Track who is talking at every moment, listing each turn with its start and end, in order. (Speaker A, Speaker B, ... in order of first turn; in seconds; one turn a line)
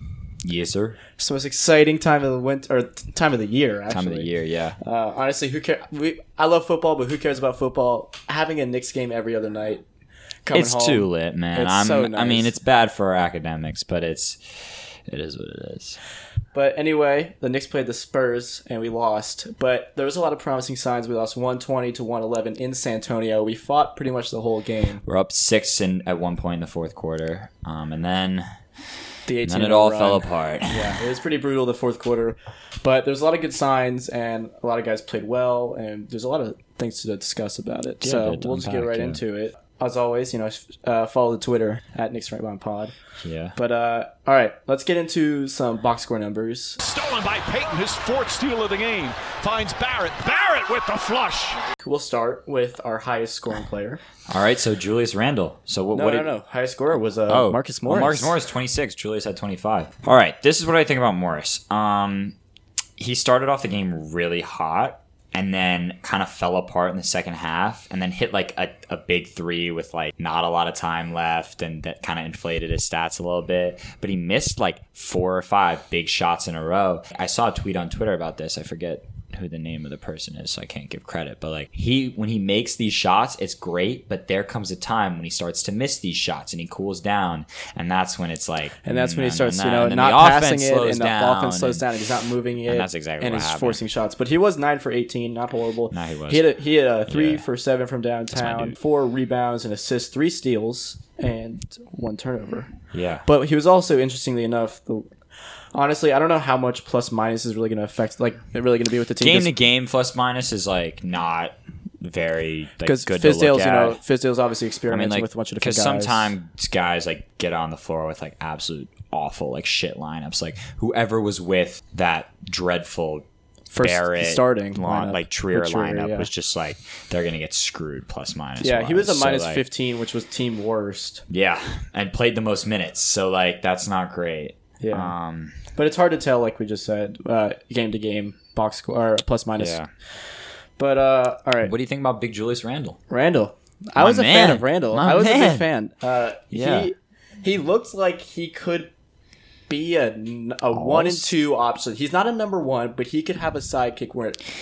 Speaker A: 0.4-1.0
Speaker B: 1.2-9.8
Speaker A: 3.9-4.8
Speaker B: 10.4-12.5
Speaker A: 10.5-16.0
Speaker B: 16.5-25.0
Speaker A: 25.0-28.4
Speaker B: 29.3-42.9
Speaker A: 29.4-31.0
Speaker A: 38.0-39.2
Speaker A: 43.2-43.5
Speaker B: 43.5-46.8
Speaker C: 46.8-51.6
Speaker B: 51.8-54.0
Speaker A: 54.3-56.3
Speaker B: 55.9-58.4
Speaker A: 57.3-62.3
Speaker A: 63.0-91.8
Speaker B: 88.8-102.7
Speaker A: 92.6-93.8
Speaker A: 95.9-96.5
Speaker A: 97.1-97.4
Speaker A: 98.3-98.8
Speaker A: 102.9-103.2
Speaker B: 103.2-105.1
Speaker B: 105.7-109.5
Speaker A: 109.2-114.0
Speaker B: 112.8-116.3
Speaker A: 114.9-123.2
Speaker B: 123.7-126.3
Speaker A: 123.8-129.6
Speaker B: 128.6-131.2
Speaker A: 131.3-135.6
Speaker B: 134.8-135.1
Speaker B: 135.7-139.8
Speaker A: 139.6-139.9
Speaker B: 140.8-141.7
Speaker A: 141.6-143.0
Speaker B: 143.1-148.9
Speaker A: 144.0-145.7
Speaker A: 146.5-146.9
Speaker B: 149.7-154.4
Speaker A: 150.7-151.3